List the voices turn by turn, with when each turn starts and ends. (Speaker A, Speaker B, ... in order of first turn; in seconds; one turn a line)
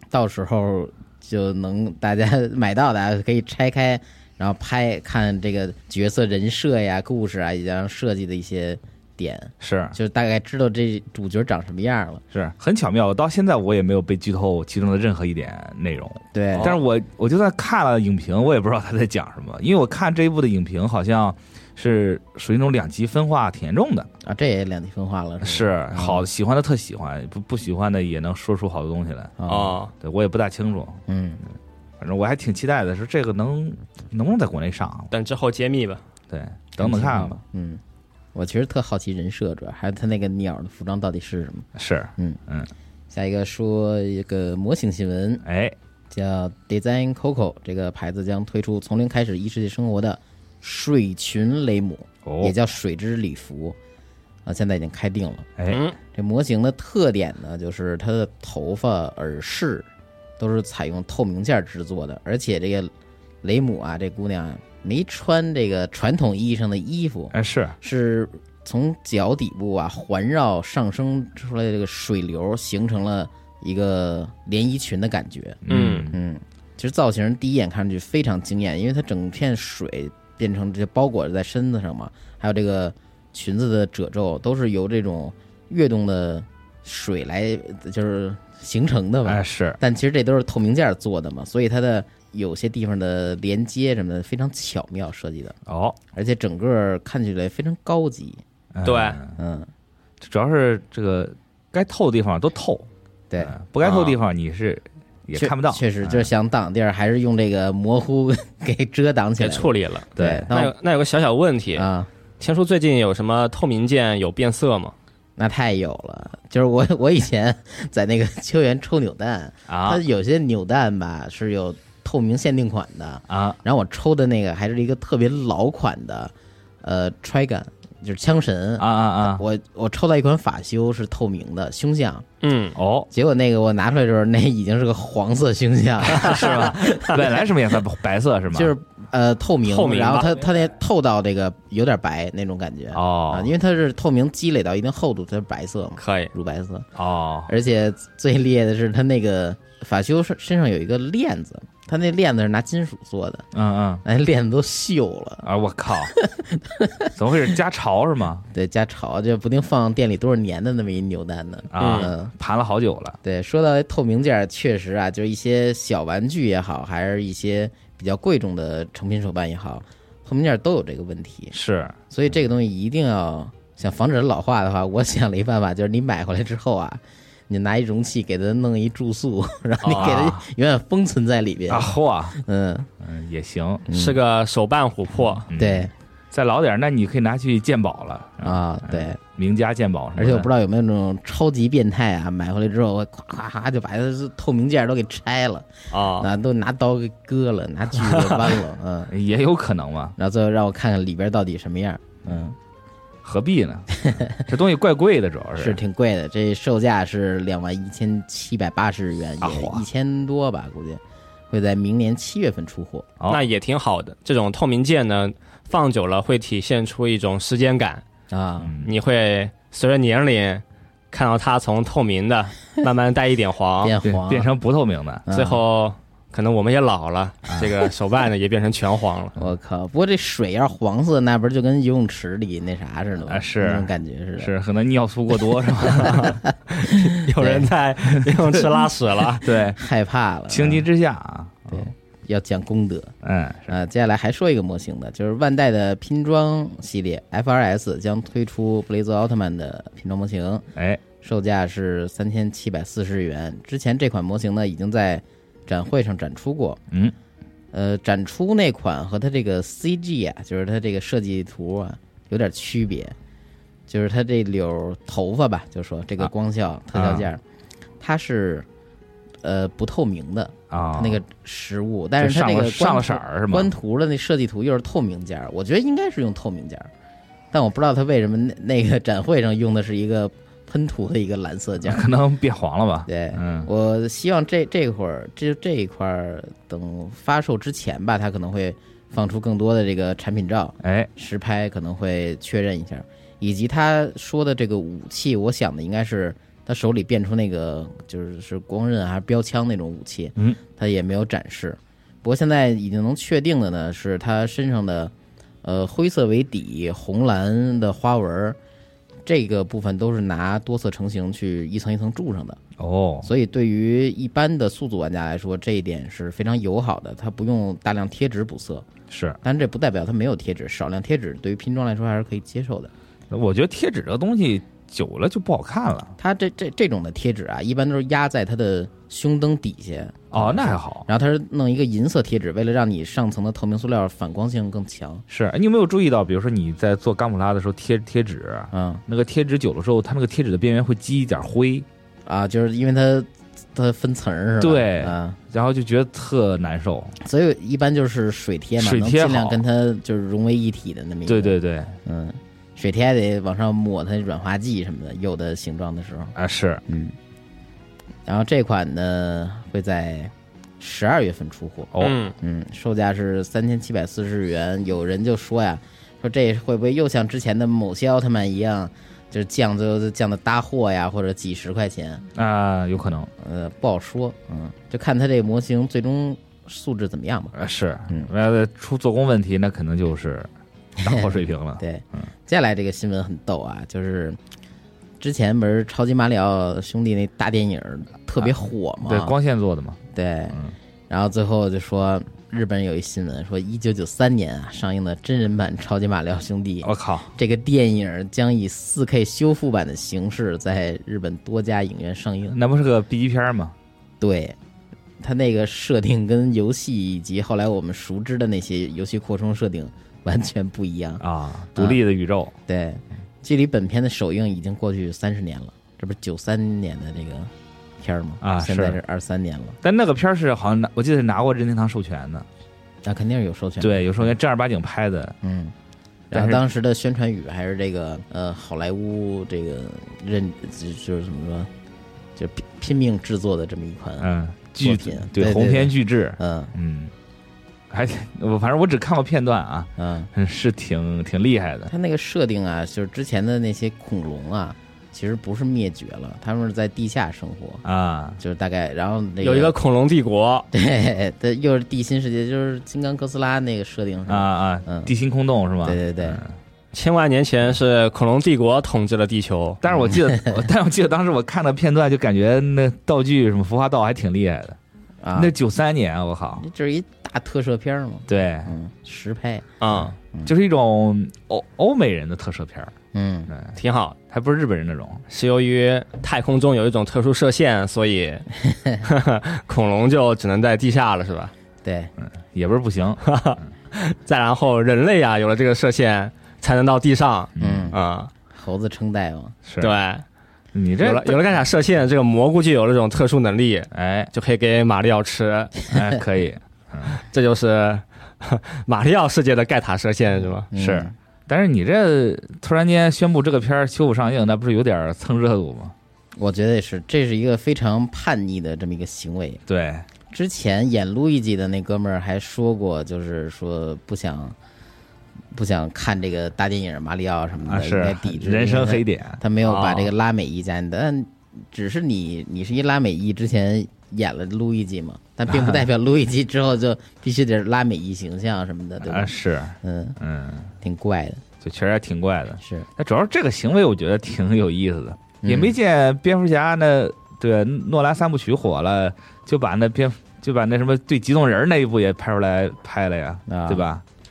Speaker A: 0.1-12.2
Speaker B: 9.6-9.9
Speaker B: 12.3-24.1
Speaker A: 16.3-16.8
Speaker C: 16.5-16.8
Speaker A: 24.2-26.2
Speaker B: 25.4-29.4
Speaker A: 29.4-29.8
Speaker C: 29.5-29.9
Speaker B: 29.9-31.0
Speaker A: 31.1-31.4
Speaker B: 32.0-35.1
Speaker C: 35.1-36.0
Speaker B: 36.3-37.4
Speaker A: 36.7-37.8
Speaker A: 38.3-42.4
Speaker B: 41.7-42.7
Speaker A: 43.1-45.4
Speaker B: 45.4-45.7
Speaker A: 46.1-53.8
Speaker B: 52.2-52.5
Speaker A: 54.5-55.5
Speaker C: 55.7-56.0
Speaker A: 56.1-59.9
Speaker A: 60.4-62.9
Speaker A: 63.4-75.6
Speaker B: 67.3-67.8
Speaker B: 75.6-76.2
Speaker C: 75.7-76.1
Speaker A: 76.1-95.5
Speaker B: 89.3-89.8
Speaker B: 95.7-96.0
Speaker A: 96.1-98.4
Speaker B: 98.7-99.3
Speaker C: 98.8-99.2
Speaker A: 99.3-99.7
Speaker B: 100.2-102.9
Speaker B: 103.4-106.3
Speaker C: 103.8-104.2
Speaker A: 105.3-110.7
Speaker C: 109.4-111.8
Speaker B: 110.2-110.5
Speaker A: 111.7-112.1
Speaker C: 112.4-114.9
Speaker A: 115.4-132.2
Speaker B: 119.7-120.0
Speaker B: 123.3-123.6
Speaker B: 128.8-129.4
Speaker C: 132.4-132.7
Speaker B: 132.7-133.1
Speaker A: 133.1-137.2
Speaker C: 136.1-137.2
Speaker B: 136.1-138.7
Speaker A: 138.5-146.9
Speaker C: 139.6-140.4
Speaker B: 142.9-143.5
Speaker C: 146.0-146.3
Speaker B: 146.9-147.5
Speaker A: 147.5-153.4
Speaker B: 153.5-154.0
Speaker A: 154.0-155.4
Speaker B: 155.4-156.1
Speaker A: 156.1-157.1
Speaker B: 157.1-158.4
Speaker A: 158.5-162.3
Speaker B: 161.7-163.2
Speaker C: 161.8-162.1
Speaker A: 163.2-171.5
Speaker B: 171.5-171.9
Speaker A: 172.1-182.9
Speaker C: 179.8-180.2
Speaker B: 179.9-180.4
Speaker B: 181.7-182.4
Speaker B: 183.0-183.8
Speaker A: 183.9-184.2
Speaker C: 183.9-185.4
Speaker A: 185.2-185.9
Speaker B: 185.5-190.5
Speaker A: 188.4-189.2
Speaker A: 190.2-199.1
Speaker C: 195.9-196.3
Speaker C: 198.0-198.5
Speaker B: 199.1-200.2
Speaker A: 200.2-202.5
Speaker B: 203.2-205.8
Speaker A: 203.9-204.4
Speaker A: 205.6-213.1
Speaker B: 209.4-209.8
Speaker C: 213.3-218.0
Speaker A: 218.3-218.7
Speaker B: 218.6-218.9
Speaker C: 218.8-223.9
Speaker A: 223.8-224.5
Speaker B: 224.0-225.2
Speaker A: 225.2-225.6
Speaker C: 225.3-229.3
Speaker B: 227.5-227.8
Speaker A: 229.3-234.5
Speaker B: 233.3-236.4
Speaker C: 235.9-239.4
Speaker A: 236.0-236.3
Speaker A: 236.8-237.7
Speaker B: 239.4-239.8
Speaker A: 239.7-240.8
Speaker B: 240.5-241.8
Speaker A: 241.7-243.1
Speaker B: 243.2-243.7
Speaker A: 243.7-250.6
Speaker B: 250.7-251.0
Speaker A: 251.2-256.8
Speaker A: 257.7-263.1
Speaker A: 263.9-267.4
Speaker B: 266.9-267.3
Speaker A: 268.0-268.6
Speaker A: 269.4-276.9
Speaker B: 270.7-271.2
Speaker B: 272.2-273.7
Speaker A: 277.5-282.0
Speaker B: 281.8-283.7
Speaker A: 283.1-308.6
Speaker B: 290.8-291.1
Speaker A: 309.2-312.6
Speaker B: 312.8-313.3
Speaker A: 313.2-318.8
Speaker B: 319.1-319.4
Speaker A: 319.4-322.9
Speaker B: 323.3-326.1
Speaker A: 326.2-335.2
Speaker B: 330.3-331.1
Speaker B: 335.3-341.9
Speaker A: 338.7-339.0
Speaker A: 342.2-345.4
Speaker B: 344.6-347.1
Speaker A: 347.2-356.3
Speaker B: 348.8-349.6
Speaker B: 351.3-351.9
Speaker B: 356.4-356.8
Speaker A: 356.9-357.1
Speaker A: 358.2-372.2
Speaker C: 362.0-362.3
Speaker B: 372.3-373.3
Speaker A: 373.4-377.5
Speaker B: 377.5-380.5
Speaker A: 381.0-384.4
Speaker B: 381.0-382.3
Speaker A: 385.2-389.3
Speaker B: 389.1-390.0
Speaker A: 390.1-402.6
Speaker B: 396.8-397.3
Speaker B: 402.5-403.7
Speaker A: 404.2-404.6
Speaker A: 405.2-411.2
Speaker B: 411.2-412.5
Speaker A: 412.7-419.8
Speaker B: 418.4-419.0
Speaker B: 419.8-422.4
Speaker A: 423.0-424.3
Speaker B: 423.8-425.4
Speaker A: 425.4-425.7
Speaker A: 426.3-431.7
Speaker B: 426.3-426.6
Speaker A: 432.4-434.3
Speaker B: 434.2-437.1
Speaker A: 434.8-436.7
Speaker B: 437.9-441.9
Speaker A: 440.0-440.3
Speaker A: 441.9-447.8
Speaker B: 447.8-448.4
Speaker A: 448.4-449.7
Speaker C: 449.4-450.7
Speaker A: 450.7-455.1
Speaker B: 454.3-456.5
Speaker A: 455.8-456.4
Speaker C: 456.9-459.8
Speaker B: 459.8-464.8
Speaker A: 459.9-460.6
Speaker A: 465.2-465.5
Speaker B: 465.3-466.6
Speaker A: 466.6-469.7
Speaker B: 468.3-468.7
Speaker C: 469.8-470.1
Speaker B: 470.0-472.9
Speaker A: 473.1-473.5
Speaker B: 473.5-473.8
Speaker C: 473.8-474.1
Speaker B: 474.3-475.2
Speaker C: 475.3-478.5
Speaker A: 478.6-479.0
Speaker C: 479.0-481.5
Speaker A: 481.8-482.1
Speaker B: 482.2-483.2
Speaker C: 483.2-488.3
Speaker B: 487.6-487.9
Speaker A: 487.6-488.0
Speaker A: 488.5-489.5
Speaker B: 489.6-489.9
Speaker C: 489.8-490.2
Speaker B: 490.7-491.4
Speaker C: 491.0-495.8
Speaker B: 493.9-494.3
Speaker B: 495.9-497.2
Speaker C: 497.1-500.7
Speaker A: 500.7-501.1
Speaker B: 500.7-505.9
Speaker A: 506.4-509.6
Speaker B: 509.7-510.1
Speaker A: 510.3-514.5
Speaker A: 515.5-530.2
Speaker B: 517.6-520.0
Speaker B: 525.5-525.8
Speaker B: 529.0-530.7
Speaker A: 530.8-531.4
Speaker B: 531.6-544.0
Speaker A: 532.6-532.9
Speaker A: 535.4-535.7
Speaker A: 543.5-543.8